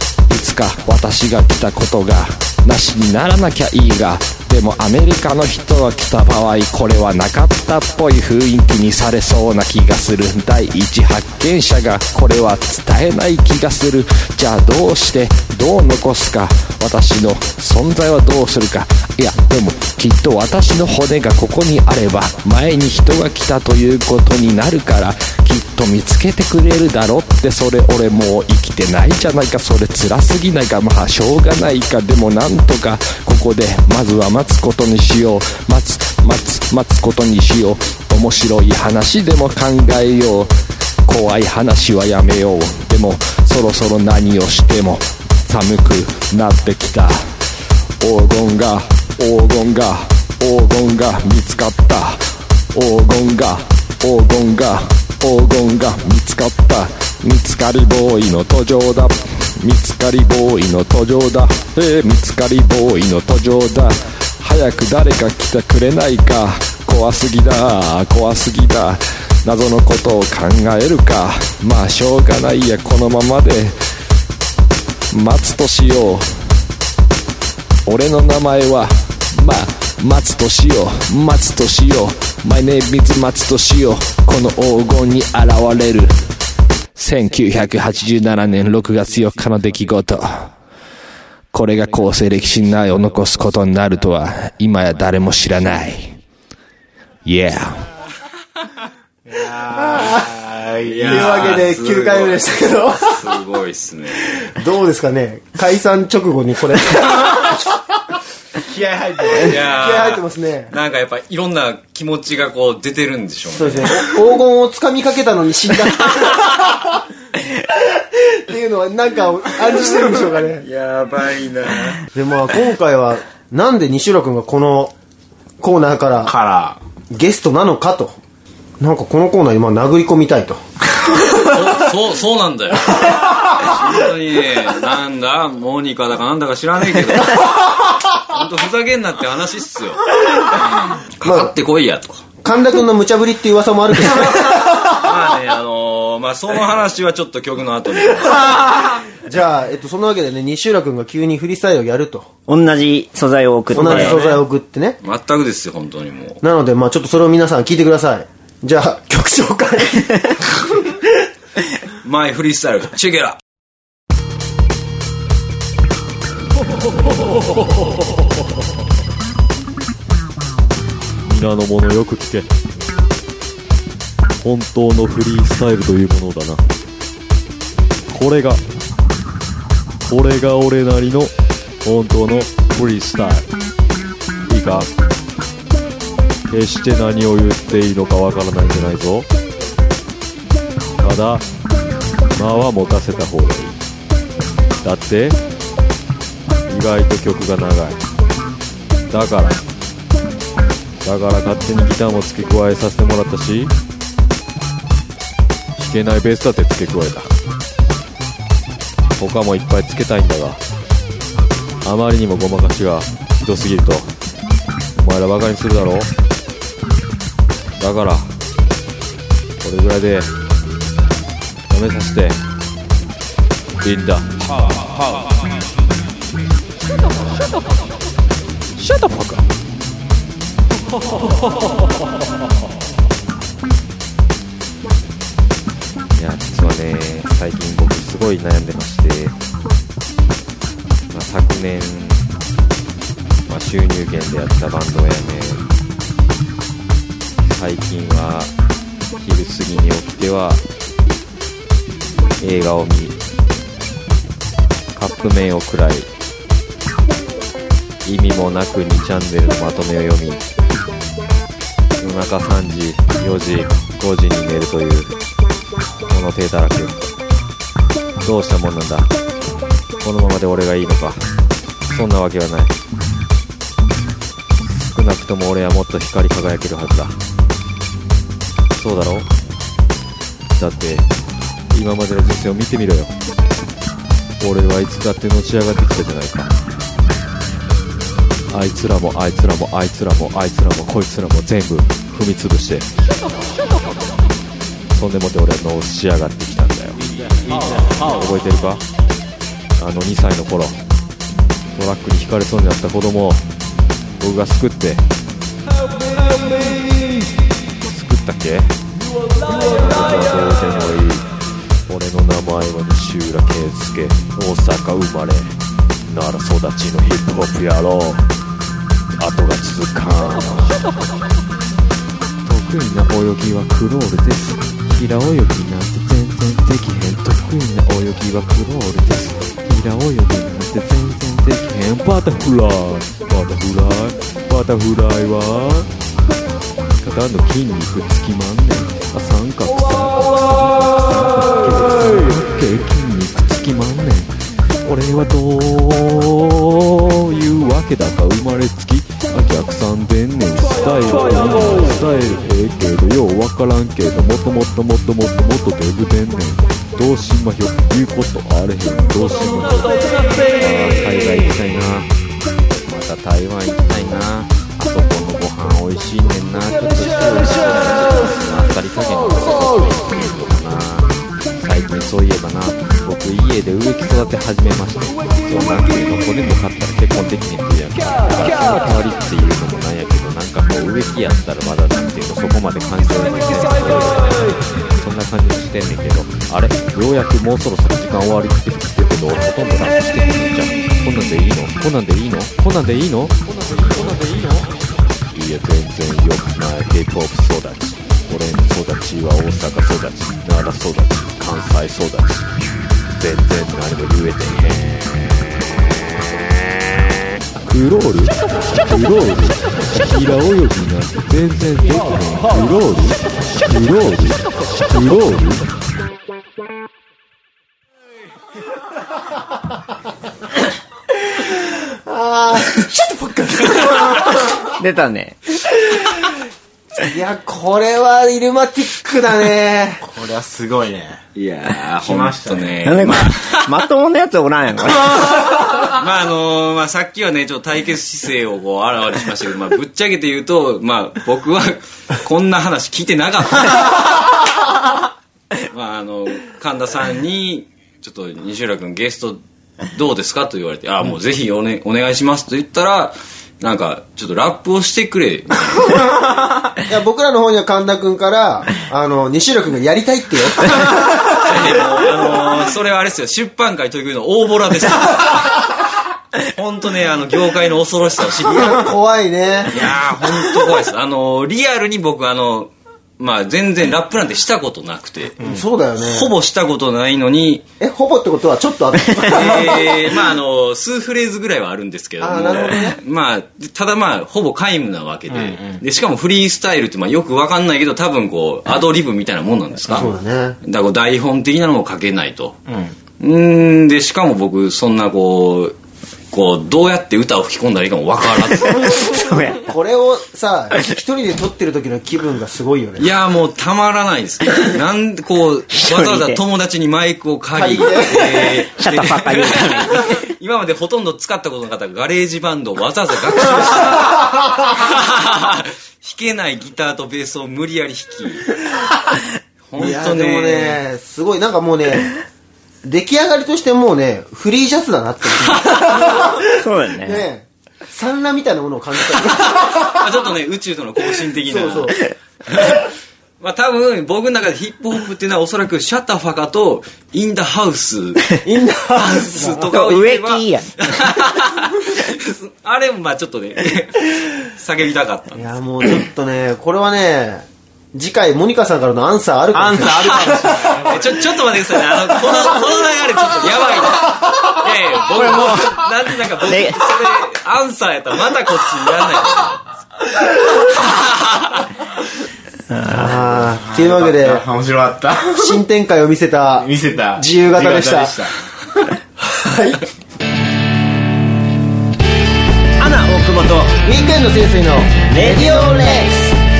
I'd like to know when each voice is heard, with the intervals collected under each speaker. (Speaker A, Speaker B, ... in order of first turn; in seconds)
Speaker A: 0.3-40.5, 41.0-47.2, 48.0-52.2, 52.7-73.8, 75.1-76.3, 77.8-86.1, 87.0-90.5, 91.5-96.2, 97.2-97.8
Speaker B: 92.3-93.9, 171.2-172.5, 174.4-176.6, 178.1-178.6, 180.0-181.3, 181.8-183.5, 184.4-184.9, 186.5-189.3, 191.0-191.4, 192.3-193.8, 194.8-195.4, 196.7-198.0, 199.1-199.6, 201.0-203.7, 205.8-207.3, 209.2-210.6, 211.8-214.1, 215.0-216.1, 217.8-218.3, 219.6-220.3, 221.7-222.4, 223.8-224.7, 228.8-229.5, 236.1-239.3, 241.1-242.2, 243.5-245.6, 247.4-248.5, 249.2-250.6, 252.4-253.2, 254.9-256.1, 258.0-260.4, 262.0-265.1, 266.1-267.0, 268.2-269.1, 270.0-271.2, 271.9-272.7, 274.6-277.2, 278.7-279.3, 280.5-281.1, 281.7-283.1, 284.4-286.6, 288.5-292.9, 294.9-297.0, 297.7-298.8, 299.8-300.8, 301.7-303.4, 304.2-305.0, 307.8-308.8, 309.4-311.3, 311.9-318.3, 319.1-320.8, 322.4-335.9, 337.0-360.0, 360.5-362.1, 362.8-394.7, 395.3-402.5, 403.1-405.6, 407.6-415.6
Speaker C: 99.2-101.6, 108.6-109.6, 126.2-126.8, 430.0-431.2, 432.0-432.8, 485.3-485.8, 492.7-492.9, 549.5-551.2, 563.4-565.6, 566.5-568.4
Speaker D: 99.9-100.3, 101.0-103.3, 104.4-107.7, 109.5-110.7, 113.5-116.6, 118.0-120.6, 122.1-124.9, 125.6-126.3, 127.1-128.2, 128.8-130.6, 141.2-141.5, 142.4-144.8, 149.2-152.3, 153.7-155.0, 156.4-160.5, 421.4-424.6, 427.0-430.0, 456.9-461.1, 468.4-469.9, 475.4-476.3, 477.8-480.1, 482.2-483.0, 489.9-490.6, 499.6-503.1, 507.5-508.6, 519.8-522.1, 522.8-526.5, 527.0-530.0, 531.4-532.0, 538.4-539.7, 545.3-550.9, 562.9-564.4, 565.3-568.2, 569.2-569.8, 573.8-576.2
Speaker E: 100.8-104.2, 109.4-114.1, 120.6-122.0, 131.2-140.1, 140.8-142.2, 144.8-148.7, 155.0-156.4, 162.0-163.4, 431.3-433.7, 435.2-444.1, 445.7-449.4, 449.9-456.1, 461.3-465.7, 466.4-468.8, 469.7-475.4, 476.0-477.6, 479.2-490.1, 490.6-492.6, 493.2-495.7, 496.3-499.2, 503.0-518.5, 519.7-520.8, 529.8-532.8, 533.4-538.3, 538.9-545.5, 550.9-559.6, 560.8-561.6
Speaker F: 152.5-154.2, 424.7-425.4, 432.8-435.3, 498.8-499.6, 505.7-506.4, 508.8-510.1, 526.5-527.2, 539.7-540.7, 555.1-555.8, 556.4-556.8, 562.7-563.2, 572.8-573.8, 575.1-576.1